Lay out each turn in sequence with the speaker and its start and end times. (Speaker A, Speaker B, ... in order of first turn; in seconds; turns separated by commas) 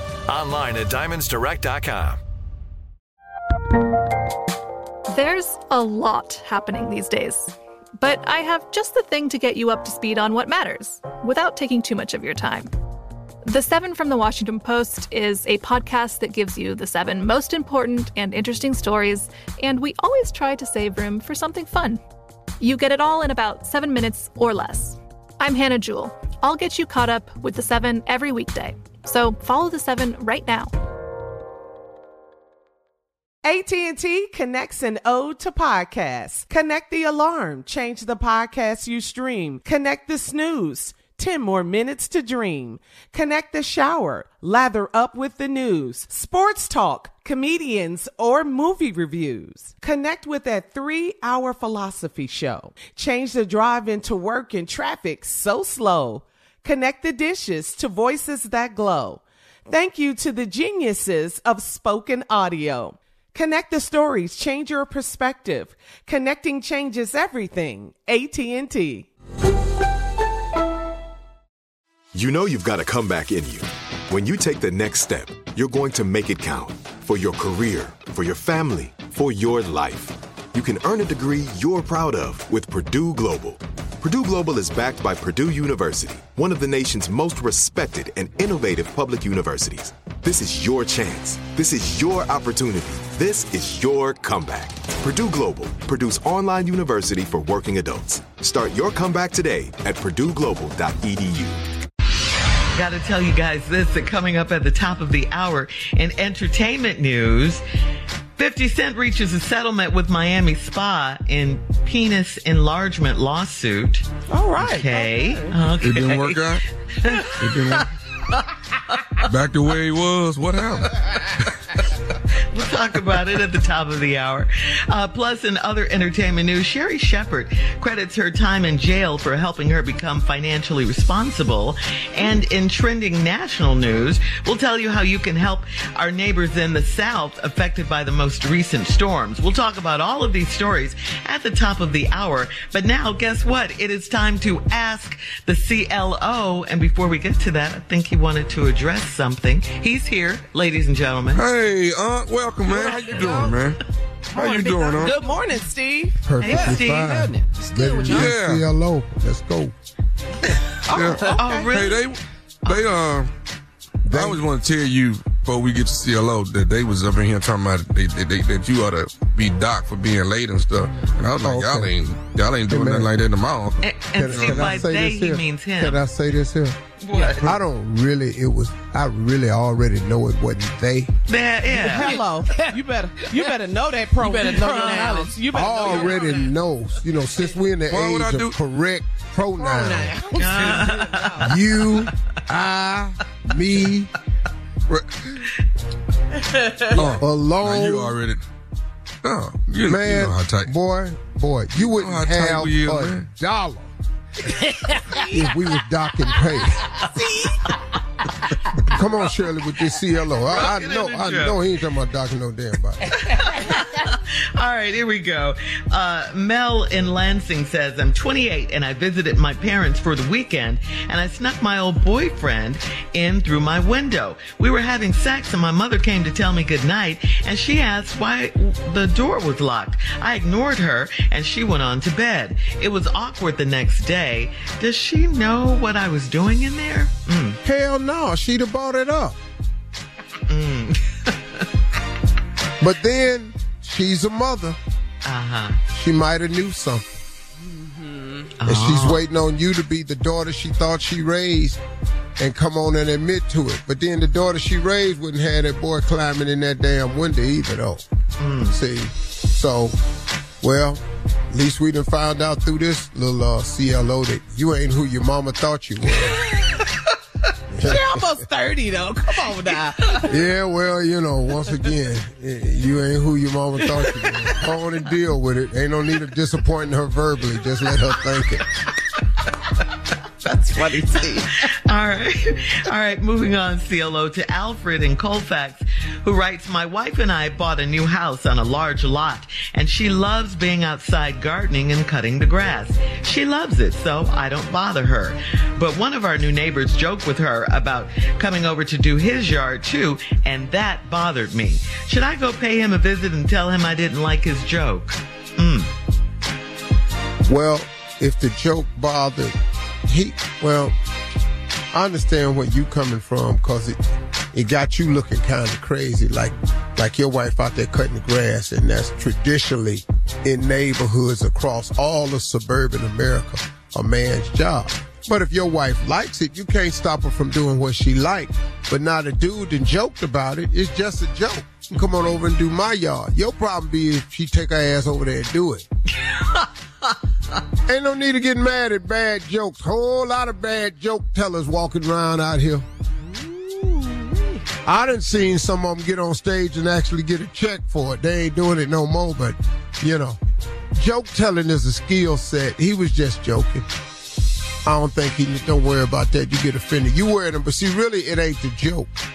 Speaker A: 5.1-12.7, Speaker A: 13.5-22.0, Speaker A: 22.6-30.7, Speaker B: 33.4-69.1, Speaker C: 72.1-101.7, Speaker D: 102.8-107.6, Speaker D: 108.4-117.8, Speaker B: 114.3-115.6, Speaker E: 115.7-116.6, Speaker E: 117.4-117.9, Speaker E: 119.2-120.9, Speaker D: 122.5-151.4, Speaker E: 151.3-153.8, Speaker D: 152.7-153.5, Speaker B: 153.2-153.6, Speaker E: 154.3-155.2, Speaker B: 154.3-158.3, Speaker F: 156.2-159.7, Speaker D: 156.4-157.3, Speaker E: 158.1-158.7, Speaker B: 160.9-161.7, Speaker E: 160.9-163.3, Speaker D: 161.2-162.1, Speaker D: 162.7-162.9, Speaker F: 164.0-164.4, Speaker E: 164.1-174.8, Speaker F: 171.4-171.9, Speaker F: 172.7-173.2, Speaker D: 173.8-176.0, Speaker F: 174.2-181.1, Speaker D: 177.0-177.6, Speaker D: 181.3-182.1, Speaker B: 181.7-186.4, Speaker D: 184.3-185.3, Speaker F: 185.5-190.3, Speaker E: 187.9-188.6, Speaker B: 189.6-191.5, Speaker D: 190.3-191.6, Speaker F: 191.4-194.1, Speaker E: 194.9-195.4, Speaker E: 196.9-198.4, Speaker F: 196.9-198.2, Speaker E: 199.2-200.7, Speaker F: 199.7-203.9, Speaker E: 201.8-203.2, Speaker F: 205.3-207.0, Speaker F: 208.9-213.1, Speaker D: 210.5-211.6, Speaker D: 213.1-237.6, Speaker F: 237.6-239.4, Speaker D: 240.5-241.7, Speaker F: 242.8-244.8, Speaker D: 245.2-245.8, Speaker F: 245.9-247.2, Speaker D: 248.6-249.2, Speaker F: 248.7-251.8, Speaker F: 252.4-258.1, Speaker D: 258.4-258.8, Speaker F: 258.7-260.0, Speaker F: 260.6-266.4, Speaker F: 267.7-268.1, Speaker B: 267.8-270.4, Speaker F: 270.3-278.6, Speaker B: 280.5-281.4, Speaker D: 281.3-305.9, Speaker F: 307.5-309.6, Speaker F: 310.1-310.9, Speaker F: 311.9-314.0, Speaker F: 314.5-335.9, Speaker D: 336.2-336.7, Speaker F: 337.9-342.9, Speaker B: 343.6-344.3, Speaker F: 344.9-350.4, Speaker F: 351.0-353.9, Speaker F: 354.9-359.1